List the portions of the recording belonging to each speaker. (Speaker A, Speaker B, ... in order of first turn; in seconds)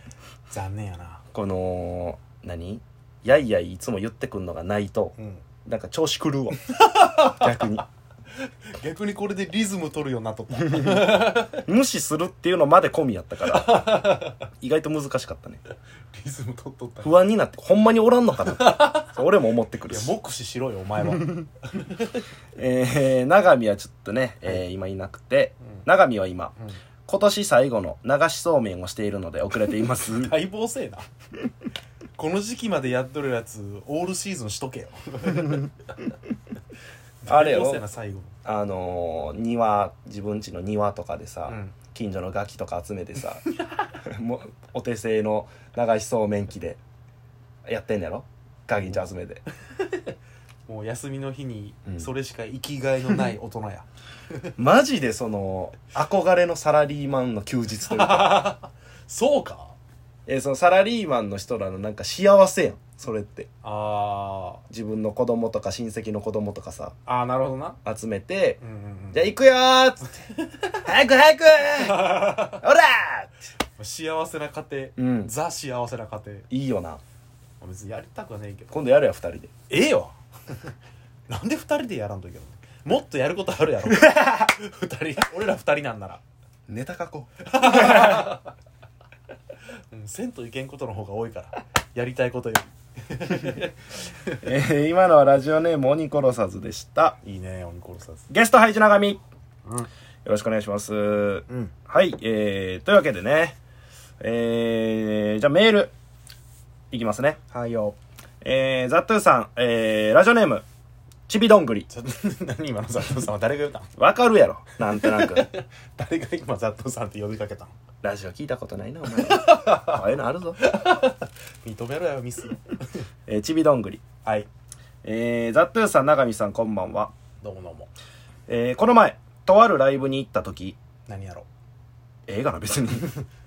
Speaker A: 0.5-1.2, 5.2-5.4, 6.7-7.5, 8.8-11.6, 13.5-14.4, 16.1-17.1, 18.4-19.1, 19.9-22.2, 30.1-31.1, 32.2-35.7, 37.2-38.3, 41.5-41.8, 49.8-50.1, 50.7-54.5, 57.8-59.7, 63.6-64.6, 67.0-67.8, 68.6-69.3, 72.0-72.6, 73.8-76.5, 77.6-78.7, 79.7-80.7, 81.3-86.2, 87.4-88.5, 89.9-94.4, 97.2-98.2, 107.5-108.0, 111.9-113.9, 114.8-117.7, 119.2-120.0, 120.6-123.0, 127.4-127.9, 131.1-131.5
Speaker B: 1.3-7.8, 10.7-15.6, 17.0-20.1, 22.6-26.5, 27.1-30.3, 37.3-37.8, 38.4-43.4, 44.0-46.8, 47.6-49.4, 54.6-58.5, 60.3-63.5, 64.7-67.0, 67.8-68.6, 69.1-70.1, 70.7-73.3, 75.0-75.3, 76.5-77.0, 78.7-79.5, 86.7-88.4, 94.4-97.2, 98.3-99.2, 100.2-103.6, 104.2-105.9, 106.9-107.4, 108.4-110.6, 111.3-111.9, 114.0-115.5, 118.0-120.6, 123.3-124.0, 125.0-127.1, 128.5-130.8, 132.3-133.1